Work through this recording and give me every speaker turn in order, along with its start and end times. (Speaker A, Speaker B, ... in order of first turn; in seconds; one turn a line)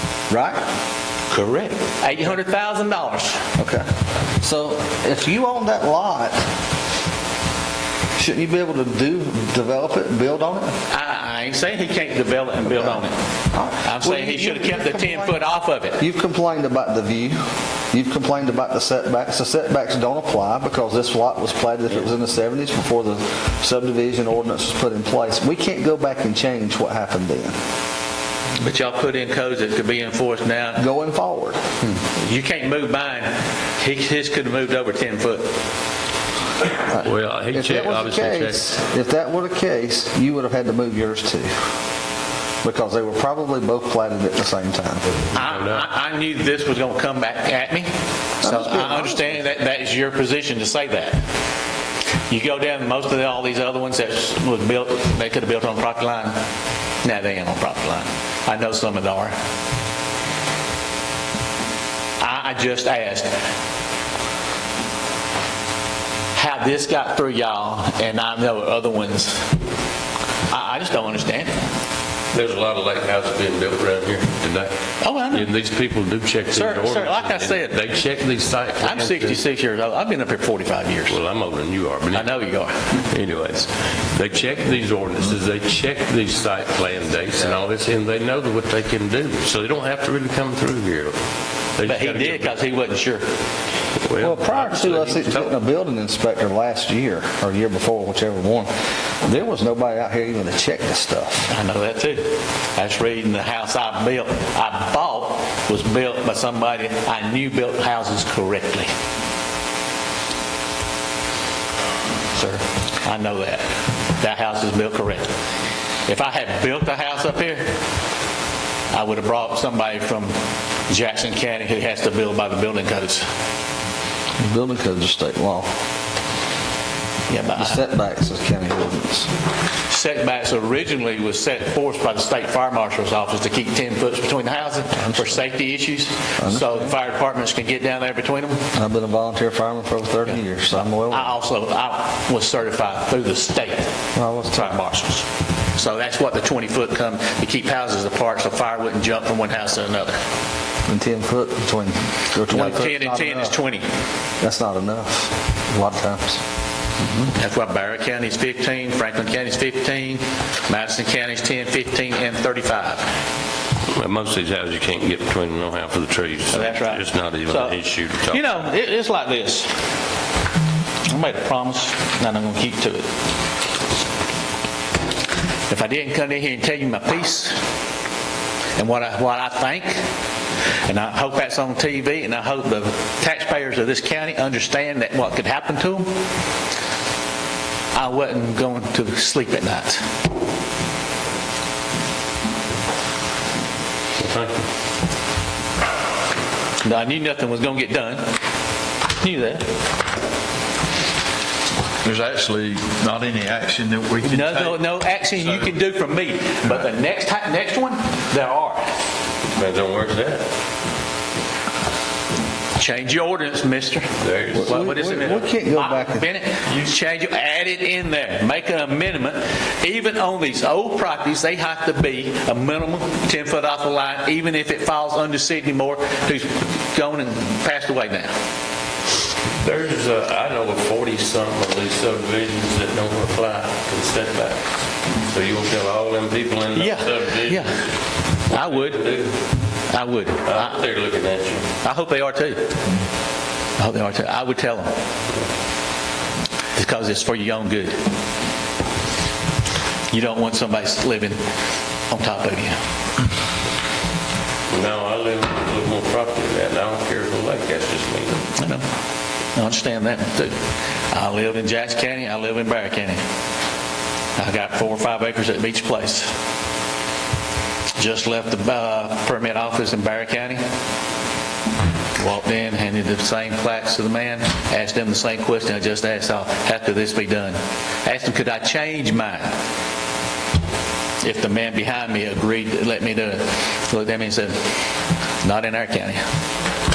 Speaker A: 0.3-0.6
Speaker B: 1.3-3.5
Speaker A: 3.6-3.8
Speaker A: 4.4-6.4
Speaker A: 8.2-10.7
Speaker B: 10.9-13.2
Speaker A: 12.6-13.0
Speaker A: 13.5-15.4
Speaker B: 13.8-16.0
Speaker A: 16.0-17.4
Speaker A: 17.9-27.6
Speaker B: 28.6-30.8
Speaker A: 30.8-31.6
Speaker B: 31.8-35.5
Speaker A: 36.9-41.5
Speaker C: 37.0-38.6
Speaker A: 42.6-45.0
Speaker B: 45.3-51.2
Speaker C: 45.4-45.9
Speaker A: 48.4-49.4
Speaker B: 52.3-56.4
Speaker B: 57.0-59.3
Speaker B: 62.2-63.3
Speaker B: 66.3-69.5
Speaker B: 70.5-71.5
Speaker C: 72.3-74.7
Speaker B: 75.0-75.5
Speaker C: 75.2-79.4
Speaker B: 76.5-77.8
Speaker B: 78.8-81.2
Speaker C: 81.1-82.3
Speaker B: 82.1-83.0
Speaker C: 83.1-91.2
Speaker C: 91.8-92.6
Speaker B: 91.8-93.3
Speaker C: 94.0-95.5
Speaker A: 94.2-98.7
Speaker A: 99.2-101.5
Speaker B: 101.5-108.9
Speaker B: 112.3-113.7
Speaker B: 114.2-115.3
Speaker B: 116.1-117.8
Speaker B: 118.9-120.4
Speaker B: 120.9-123.2
Speaker A: 124.4-125.7
Speaker B: 127.3-127.8
Speaker A: 127.6-129.3
Speaker B: 129.9-138.6
Speaker A: 135.0-135.4
Speaker A: 136.4-137.0
Speaker A: 138.8-141.3
Speaker B: 140.2-143.9
Speaker A: 144.2-144.8
Speaker B: 144.5-150.2
Speaker A: 150.9-153.6
Speaker B: 152.5-153.9
Speaker A: 154.4-156.4
Speaker B: 157.0-163.1
Speaker C: 163.9-168.6
Speaker B: 166.5-169.7
Speaker B: 171.1-173.1
Speaker B: 175.7-177.6
Speaker B: 178.8-180.0
Speaker B: 180.8-186.1
Speaker B: 187.9-190.0
Speaker C: 194.2-194.7
Speaker B: 196.8-198.3
Speaker B: 199.2-199.7
Speaker D: 202.0-204.8
Speaker B: 204.2-208.9
Speaker D: 205.4-205.7
Speaker C: 209.5-210.4
Speaker B: 212.8-228.3
Speaker C: 214.2-215.1
Speaker A: 214.5-216.3
Speaker C: 229.6-234.7
Speaker C: 235.2-237.9
Speaker B: 236.7-237.9
Speaker B: 238.5-239.0
Speaker C: 238.5-239.4
Speaker B: 239.9-240.8
Speaker C: 240.4-241.7
Speaker B: 241.8-242.8
Speaker B: 243.8-244.9
Speaker B: 246.8-248.0
Speaker B: 250.1-251.4
Speaker B: 252.1-252.8
Speaker C: 254.7-258.4
Speaker B: 258.5-258.9
Speaker B: 259.6-260.6
Speaker B: 261.1-263.2
Speaker B: 264.4-266.3
Speaker B: 268.0-270.6
Speaker B: 272.1-279.6
Speaker B: 281.2-284.6
Speaker B: 285.4-286.2